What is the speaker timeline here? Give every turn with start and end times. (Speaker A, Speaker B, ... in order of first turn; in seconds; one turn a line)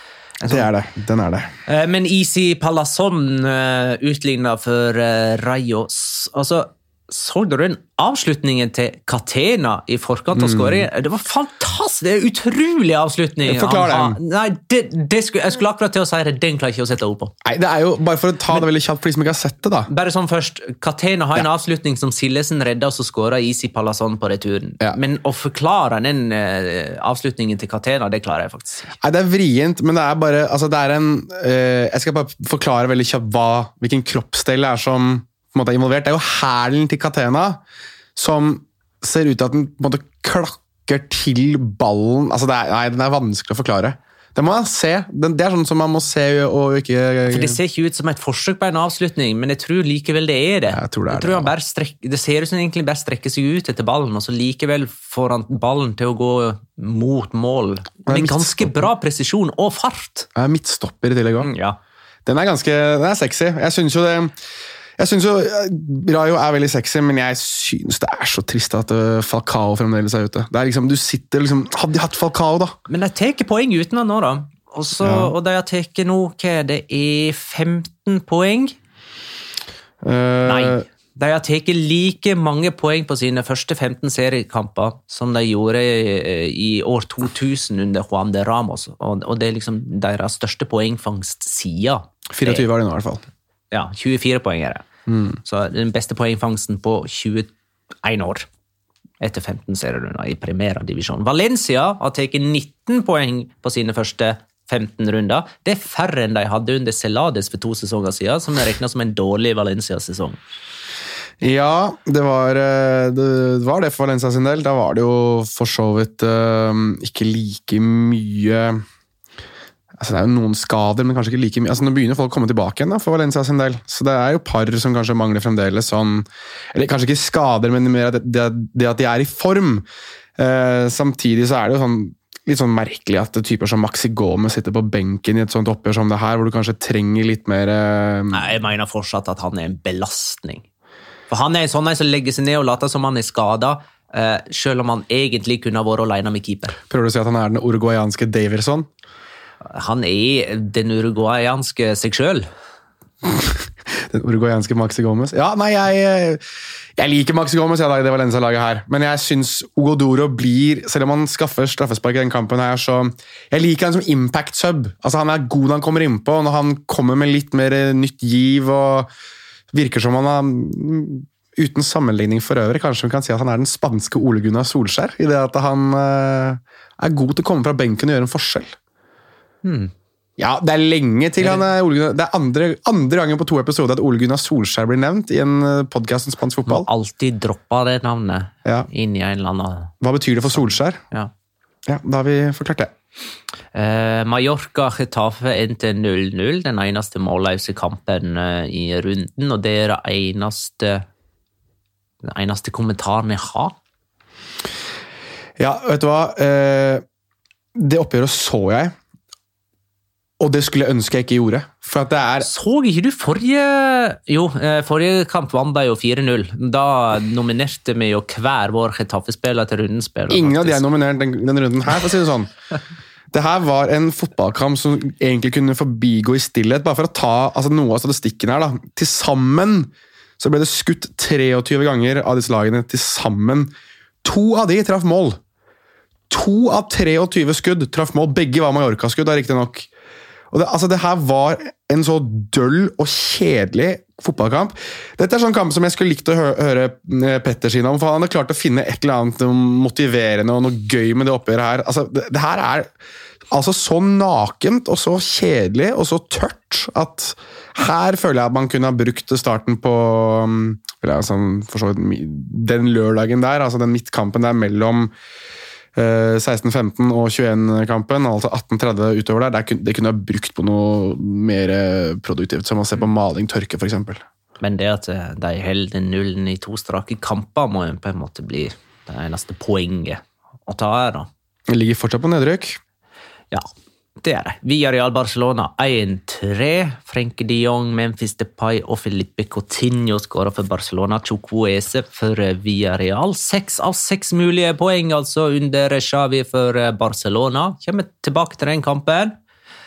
Speaker A: 0.4-0.7
Speaker B: 0.5-1.5
Speaker A: 1.7-17.3
Speaker B: 10.3-10.9
Speaker B: 13.5-14.2
Speaker B: 17.4-19.9
Speaker A: 19.9-28.9
Speaker B: 29.0-37.6
Speaker B: 38.2-47.6
Speaker A: 47.3-60.3
Speaker B: 50.7-51.5
Speaker B: 58.1-58.9
Speaker B: 60.4-61.5
Speaker A: 61.4-61.8
Speaker B: 62.3-64.3
Speaker B: 65.0-72.8
Speaker A: 72.9-78.8
Speaker B: 75.0-75.3
Speaker B: 80.0-80.8
Speaker A: 80.4-92.7
Speaker B: 92.3-93.2
Speaker A: 93.7-94.9
Speaker B: 95.1-95.4
Speaker A: 95.4-97.5
Speaker A: 98.0-98.5
Speaker A: 99.2-110.4
Speaker B: 111.4-118.8
Speaker B: 120.0-129.8
Speaker B: 130.4-138.5
Speaker A: 138.3-140.7
Speaker A: 141.3-146.8
Speaker B: 146.9-148.9
Speaker A: 149.7-152.5
Speaker B: 153.2-156.4
Speaker B: 157.0-169.1
Speaker B: 169.7-178.8
Speaker A: 179.6-179.9
Speaker B: 180.4-186.9
Speaker A: 181.4-181.7
Speaker A: 186.7-189.9
Speaker B: 190.0-191.0
Speaker A: 190.5-191.3
Speaker B: 191.9-192.9
Speaker A: 193.7-201.1
Speaker A: 202.2-203.8
Speaker B: 205.6-207.0
Speaker B: 207.8-208.9
Speaker B: 210.4-212.5
Speaker A: 212.4-220.8
Speaker B: 220.3-222.5
Speaker B: 223.3-233.7
Speaker B: 234.2-235.4
Speaker B: 236.3-239.9
Speaker B: 240.5-252.9
Speaker B: 253.5-265.1
Speaker B: 265.9-274.2
Speaker A: 274.6-281.3
Speaker B: 281.7-282.8
Speaker A: 284.2-299.4